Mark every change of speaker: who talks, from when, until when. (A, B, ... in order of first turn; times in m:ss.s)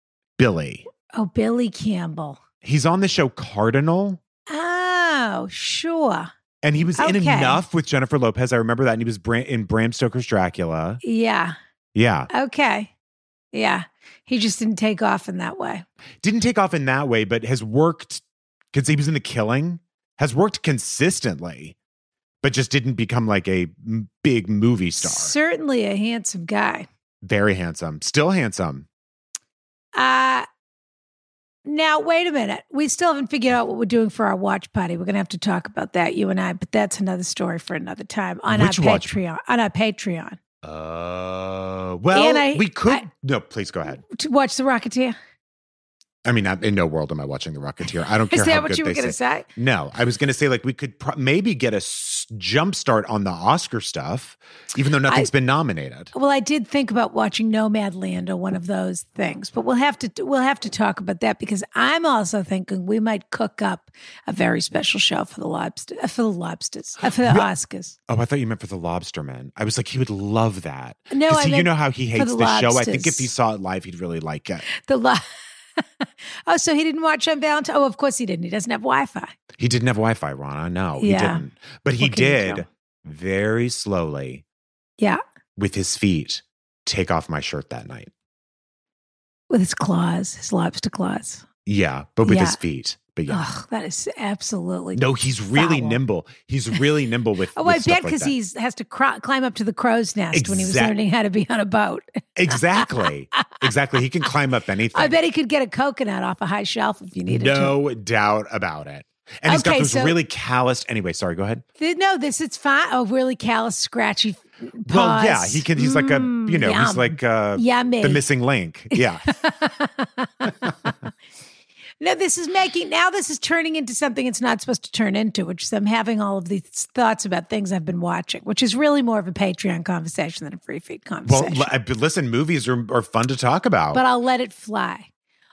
0:00.4-0:00.9 A
0:01.1-0:02.4 B
0:02.6-0:04.2 A
0:04.5-0:06.3 B
0:06.6-0:11.0 A
0:07.0-0:07.6 B
0:11.0-0:11.6 B
0:11.9-0:12.3 A
0:12.3-0:12.9 B
0:13.5-0:15.9 B
0:16.2-0:21.8 A
0:22.4-0:25.3 A
0:25.0-0:26.9 B
0:27.2-0:28.9 A
0:30.0-0:30.5 B
0:31.6-0:40.4 B
0:38.5-0:39.2 A
0:40.6-0:44.0 A
0:42.1-0:43.1 B
0:44.0-0:45.2 B
0:46.2-0:56.1 A
0:48.3-0:49.5 B
0:56.1-1:08.0 B
1:07.1-1:07.5 A
1:08.1-1:14.6 A
1:11.1-1:13.3 B
1:14.8-1:15.3 B
1:15.8-1:19.3 B
1:19.6-1:24.4 A
1:21.0-1:21.4 B
1:22.0-1:22.7 B
1:25.6-1:28.1 A
1:29.5-1:31.5 B
1:31.7-1:33.5 A
1:32.2-1:32.6 B
1:33.3-1:35.0 B
1:35.0-1:38.3 A
1:35.5-1:36.0 B
1:37.6-1:43.1 B
1:40.3-1:41.0 A
1:42.4-1:45.2 A
1:44.9-1:47.8 B
1:47.3-1:51.6 A
1:49.5-1:50.2 B
1:51.8-1:58.3 B
1:54.8-1:59.3 A
1:58.9-2:00.9 B
2:02.0-2:11.7 B
2:11.3-2:14.0 A
2:13.9-2:15.1 B